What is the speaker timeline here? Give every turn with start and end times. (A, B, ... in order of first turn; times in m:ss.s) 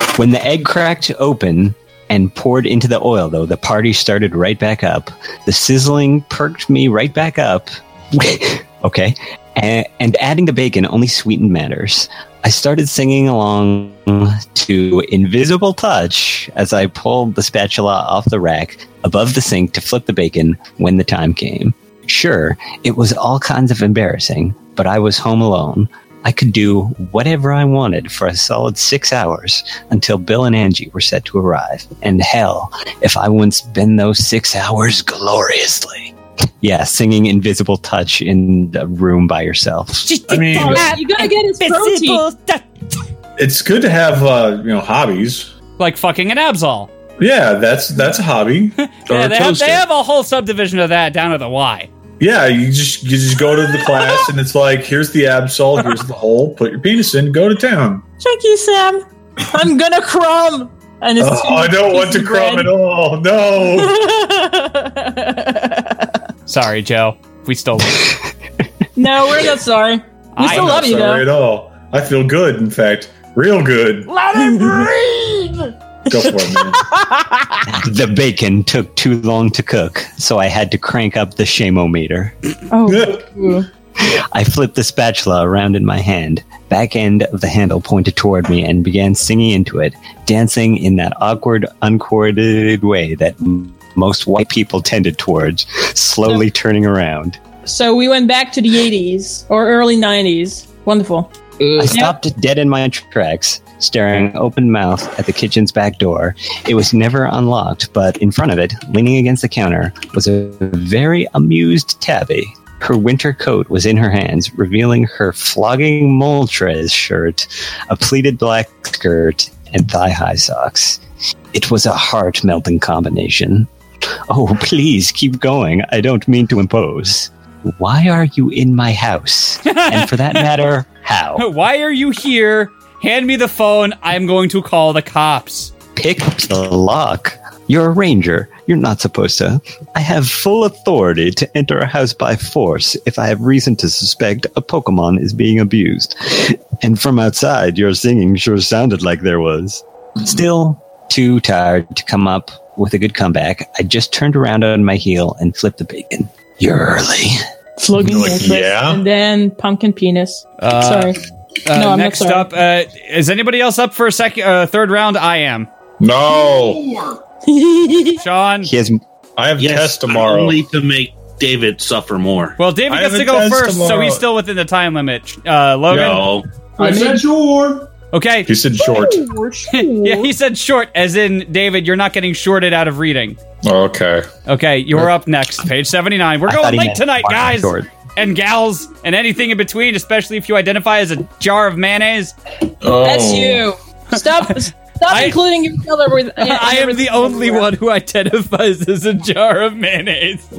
0:00.2-0:40.1 A
0:40.0-0:42.6 B
0:40.3-0:40.9 C
0:40.4-0:42.2 D
0:43.4-0:45.5 C
0:45.8-0:46.9 B
0:47.2-0:49.8 C
0:49.0-0:51.9 B
0:52.2-0:58.0 C
0:53.7-0:54.3 D
0:58.2-1:02.7 D
1:01.2-1:04.1 C
1:03.6-1:06.1 D
1:06.5-1:08.1 B
1:09.0-1:11.3 D
1:10.4-1:10.8 B
1:10.4-1:14.1 C
1:14.3-1:14.9 D
1:16.1-1:16.9 C
1:16.1-1:17.2 D
1:17.7-1:22.4 A
1:22.7-1:23.7 D
1:22.9-1:23.2 C
1:24.0-1:37.4 A
1:37.7-1:41.3 D
1:41.8-2:01.0 A
1:41.9-1:42.2 D
2:01.5-2:03.7 A
2:04.3-2:11.5 A
2:09.7-2:10.5 B
2:11.4-2:15.7 B
2:16.0-2:37.4 A
2:37.8-2:41.2 D
2:38.0-2:39.0 C
2:40.6-2:41.1 B
2:41.7-2:45.7 B
2:41.7-2:42.5 D
2:46.0-2:47.1 C
2:47.5-2:48.2 D
2:48.2-2:48.7 B
2:48.6-2:49.0 A
2:49.4-2:50.6 C
2:49.6-2:52.6 E
2:52.6-2:56.3 B
2:52.9-2:54.2 C
2:55.9-2:57.9 C
2:55.9-2:56.4 E
2:56.8-2:57.2 D
2:58.1-2:58.5 B
2:58.5-2:59.3 C
2:58.8-3:00.3 D
2:59.7-3:03.4 B
3:03.6-3:04.3 C
3:04.5-3:12.3 B
3:06.4-3:07.9 A
3:12.8-3:13.7 C
3:13.0-3:17.7 D
3:14.4-3:15.4 B
3:16.4-3:20.5 B